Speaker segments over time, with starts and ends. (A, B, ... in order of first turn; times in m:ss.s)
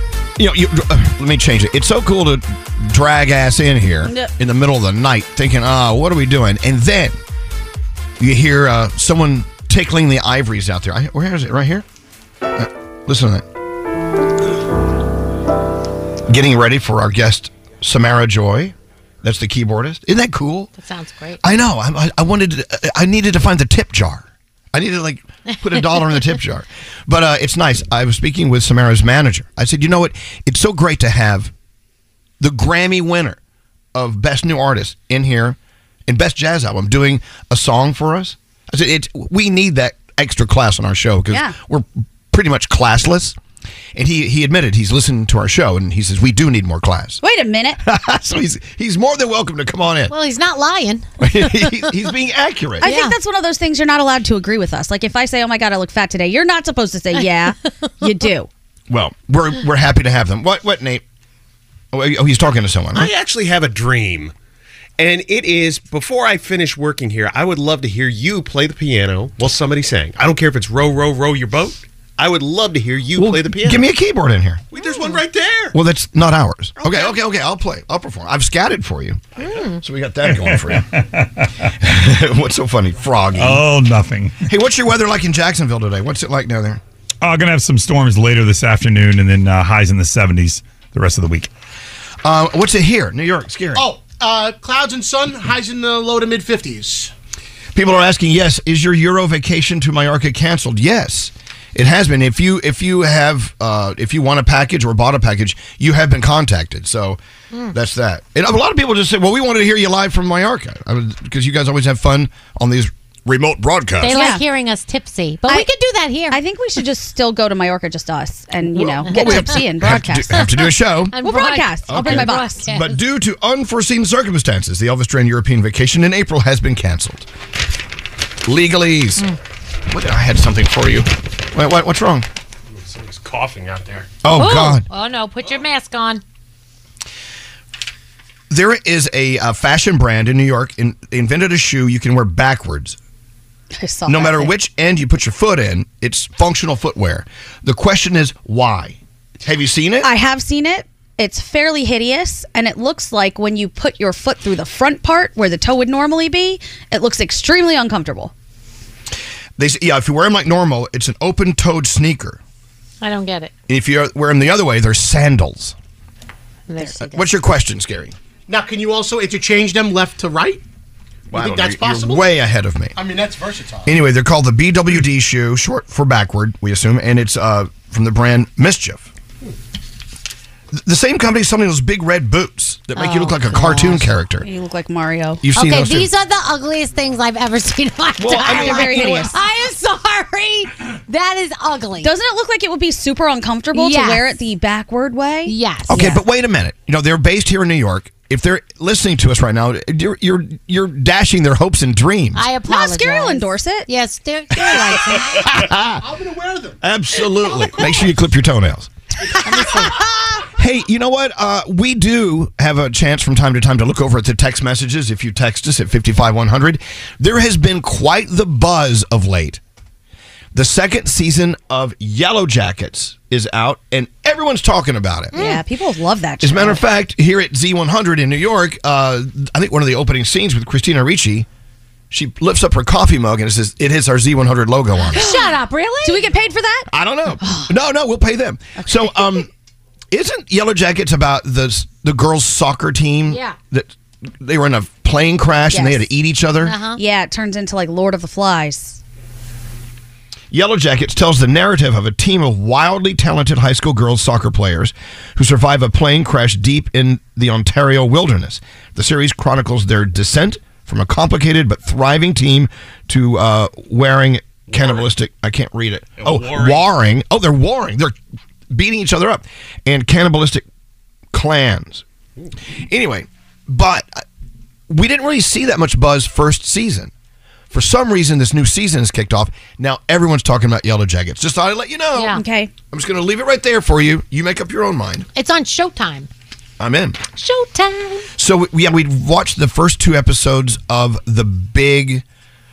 0:00.4-0:07.2 A
0:04.0-0:04.3 B
0:08.2-0:11.8 A
0:12.5-0:13.4 A
0:16.3-0:20.7 A
0:20.8-0:21.4 C
0:21.4-0:31.5 A
0:25.7-0:26.2 C
0:32.4-0:33.4 A
0:33.9-0:43.4 A
0:41.3-0:41.5 B
0:43.9-0:47.2 A
0:47.2-0:47.8 B
0:47.8-0:50.1 A
0:50.1-0:51.8 C
0:51.2-0:52.8 A
0:52.8-0:58.5 B
0:52.8-0:53.1 C
0:58.9-1:01.0 A
1:01.9-1:03.1 A
1:02.9-1:04.3 D
1:05.0-1:13.9 D
1:13.2-1:14.6 A
1:14.7-1:15.8 D
1:15.7-1:20.9 A
1:19.4-1:19.8 C
1:20.2-1:21.7 E
1:21.8-1:23.6 A
1:23.3-1:24.4 E
1:24.5-1:26.8 A
1:27.2-1:31.5 E
1:32.2-1:33.9 A
1:33.7-1:37.1 F
1:37.7-1:47.2 A
1:47.7-1:54.2 A
1:54.0-1:56.4 C
1:54.1-1:54.4 B
1:56.3-2:00.4 B
1:58.7-2:01.2 A
1:59.1-1:59.6 C
2:01.1-2:03.0 C
2:01.2-2:02.6 B
2:01.9-2:07.3 A
2:08.4-2:09.3 A
2:09.9-2:12.3 A
2:12.7-2:14.1 D
2:14.2-2:14.8 A
2:14.3-2:16.2 C
2:18.5-2:23.0 A
2:23.8-2:24.5 B
2:24.1-2:30.1 A
2:30.0-2:38.3 B
2:39.6-2:42.4 A
2:43.0-2:43.5 C
2:43.7-2:45.7 A
2:46.7-2:47.3 C
2:47.1-2:48.1 A
2:48.5-2:50.6 F
2:51.3-2:53.0 A
2:51.3-2:52.3 F
2:53.0-2:53.9 F
2:53.8-2:59.1 A
3:00.7-3:04.5 A
3:03.0-3:04.0 C
3:04.4-3:05.4 B
3:05.4-3:06.1 A
3:05.5-3:12.1 C
3:08.2-3:09.3 A
3:08.4-3:09.4 B
3:12.0-3:16.2 B
3:13.7-3:14.3 C
3:15.4-3:16.1 C
3:15.9-3:22.4 A
3:22.3-3:25.6 C
3:22.7-3:23.9 B
3:25.0-3:26.0 A
3:26.0-3:26.8 F
3:26.8-3:28.9 A
3:27.4-3:28.0 F
3:29.4-3:30.5 C
3:30.5-3:39.6 A
3:40.5-3:45.4 A
3:45.3-3:45.6 C
3:45.3-3:46.8 B
3:46.4-3:51.5 A
3:52.1-3:55.3 A
3:55.1-3:56.2 C
3:55.1-3:56.9 B
3:56.9-3:59.5 A
3:57.4-3:57.7 B
3:58.8-3:59.2 B
4:00.1-4:06.8 A
4:03.3-4:03.6 C
4:05.7-4:06.0 B
4:06.6-4:07.0 C
4:07.0-4:09.0 B
4:10.5-4:28.2 A
4:24.7-4:25.0 D
4:26.2-4:26.8 D
4:28.7-4:30.6 A
4:31.3-4:32.0 A
4:32.9-4:34.2 A
4:34.9-4:37.1 A
4:37.7-4:45.3 A
4:42.1-4:42.4 C
4:42.3-4:42.7 B
4:45.3-4:46.3 C
4:46.8-4:47.2 A
4:47.4-4:48.3 C
4:48.4-4:52.2 A